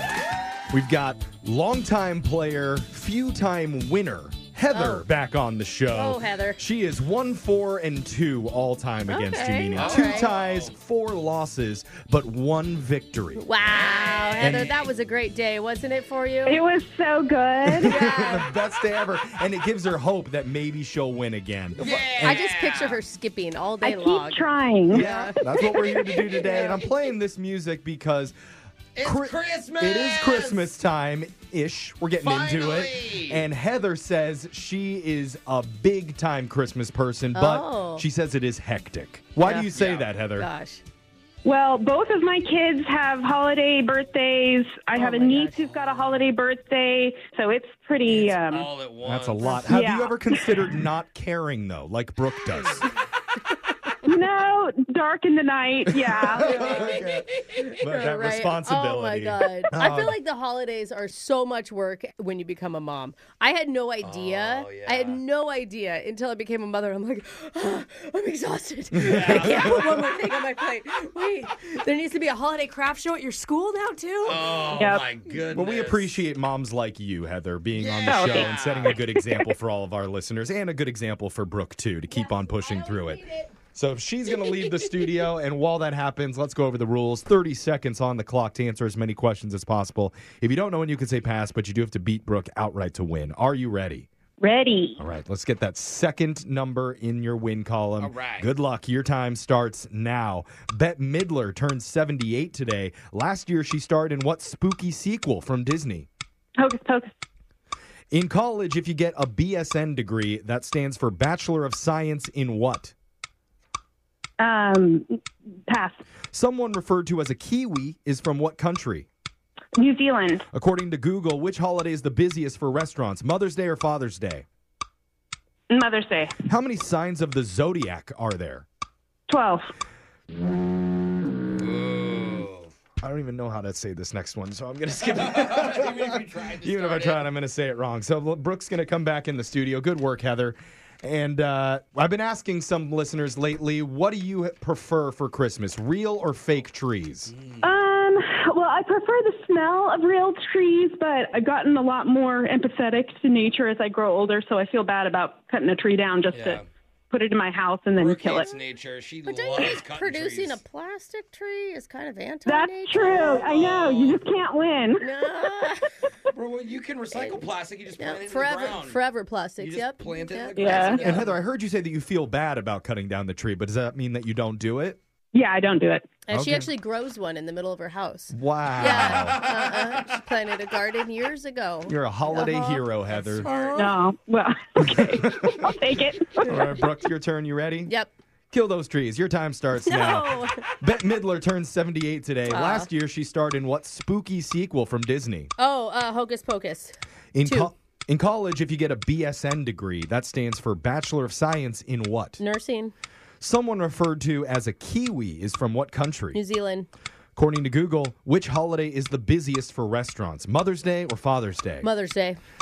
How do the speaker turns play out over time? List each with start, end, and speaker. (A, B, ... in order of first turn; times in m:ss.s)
0:00.7-0:13.5 A
0:04.7-0:05.1 B
0:05.9-0:06.6 B
0:09.1-0:10.3 B
0:09.7-0:10.8 C
0:13.4-0:16.6 B
0:13.7-0:14.9 C
0:14.4-0:14.7 A
0:16.4-0:18.0 D
0:17.7-0:22.4 A
0:17.8-0:18.5 B
0:21.8-0:23.0 C
0:21.8-0:25.6 B
0:23.8-0:25.2 D
0:24.9-0:28.3 A
0:25.7-0:26.3 D
0:26.4-0:26.8 B
0:29.0-0:30.7 C
0:29.0-0:40.5 A
0:32.2-0:33.4 C
0:37.3-0:38.0 B
0:39.4-0:39.7 B
0:39.7-0:40.1 C
0:40.4-0:40.8 B
0:41.4-0:48.7 D
0:44.9-0:45.8 B
0:48.0-0:49.5 C
0:49.0-0:52.9 A
0:49.5-0:50.7 D
0:54.0-0:56.7 D
0:56.0-0:57.3 A
0:56.4-1:14.7 B
0:57.8-1:00.2 A
1:04.0-1:05.2 C
1:08.9-1:09.9 A
1:09.0-1:09.7 C
1:14.2-1:16.2 C
1:14.7-1:15.1 D
1:15.5-1:23.2 A
1:17.8-1:19.0 C
1:18.1-1:19.4 D
1:22.1-1:23.5 B
1:23.7-1:34.1 A
1:34.4-1:35.0 D
1:35.0-1:46.1 A
1:38.0-1:38.5 C
1:46.6-1:47.1 D
1:48.1-1:52.9 A
1:54.4-1:55.2 D
1:55.7-1:56.0 D
1:56.3-1:59.1 A
1:59.8-2:00.4 D
2:00.5-2:04.4 A
2:05.7-2:06.4 D
2:06.5-2:08.7 A
2:09.3-2:09.6 D
2:11.6-2:12.7 C
2:13.0-2:27.3 A
2:15.3-2:17.2 C
2:27.3-2:27.7 C
2:27.6-2:38.4 D
2:36.3-2:36.7 C
2:38.0-2:40.6 C
2:38.3-2:38.6 B
2:39.2-2:43.4 B
2:42.5-2:45.0 D
2:42.9-2:44.2 C
2:45.0-2:45.9 B
2:46.3-2:49.0 C
2:47.1-2:51.2 B
2:49.6-2:51.4 C
2:50.6-2:51.0 D
2:51.0-2:55.0 A
2:55.3-2:56.1 D
2:56.3-3:02.8 B
2:56.3-2:56.7 A
2:58.3-2:59.4 A
2:58.8-3:00.0 C
3:01.9-3:03.5 A
3:03.1-3:03.8 C
3:03.4-3:03.9 B
3:03.8-3:06.7 D
3:04.9-3:05.6 A
3:06.4-3:07.9 A
3:08.5-3:15.5 A
3:09.8-3:10.7 B
3:12.5-3:12.9 B
3:15.6-3:17.7 B
3:17.3-3:22.4 A
3:22.4-3:22.9 B
3:23.4-3:26.4 A
3:26.3-3:26.9 B
3:27.4-3:31.9 A
3:31.8-3:32.4 B